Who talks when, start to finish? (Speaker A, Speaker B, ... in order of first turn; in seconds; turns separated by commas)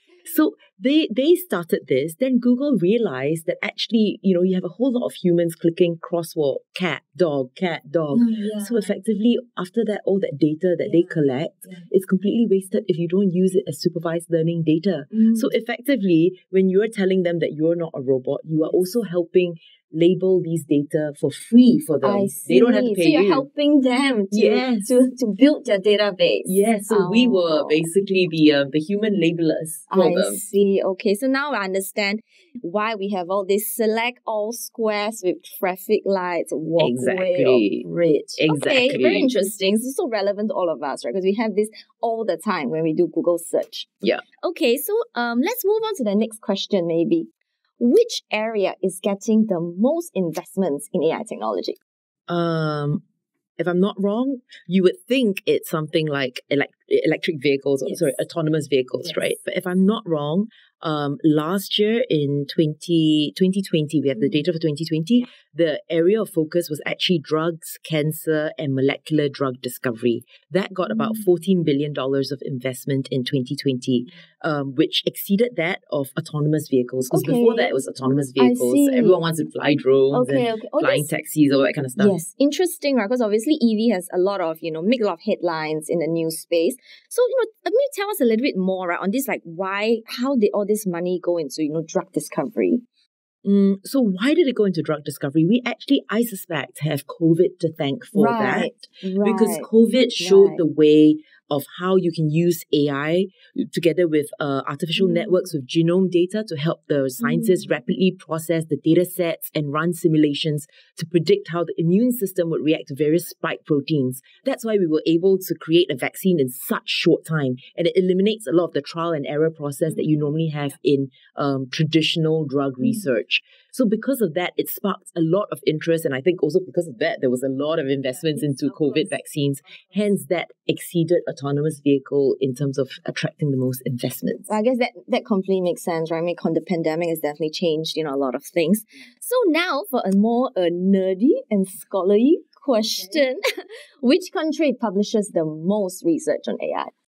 Speaker A: 0.2-23.5, Speaker B: 8.1-8.9, Speaker B: 10.8-11.2, Speaker B: 15.1-15.5, Speaker B: 22.0-27.9, Speaker A: 24.3-25.1, Speaker A: 26.4-30.4, Speaker B: 29.9-43.9, Speaker A: 36.8-37.9, Speaker A: 38.4-39.3, Speaker B: 44.4-47.3, Speaker B: 47.8-51.8, Speaker A: 52.3-53.0, Speaker A: 53.6-82.2, Speaker B: 57.9-58.2, Speaker B: 59.0-59.3, Speaker B: 64.2-64.4, Speaker B: 70.9-71.2, Speaker B: 77.1-77.8, Speaker B: 78.4-79.2, Speaker B: 80.1-81.1, Speaker B: 82.0-92.8, Speaker A: 93.5-134.5, Speaker B: 98.1-99.7, Speaker B: 100.2-100.6, Speaker B: 107.2-107.7, Speaker B: 134.5-143.4, Speaker B: 144.0-146.9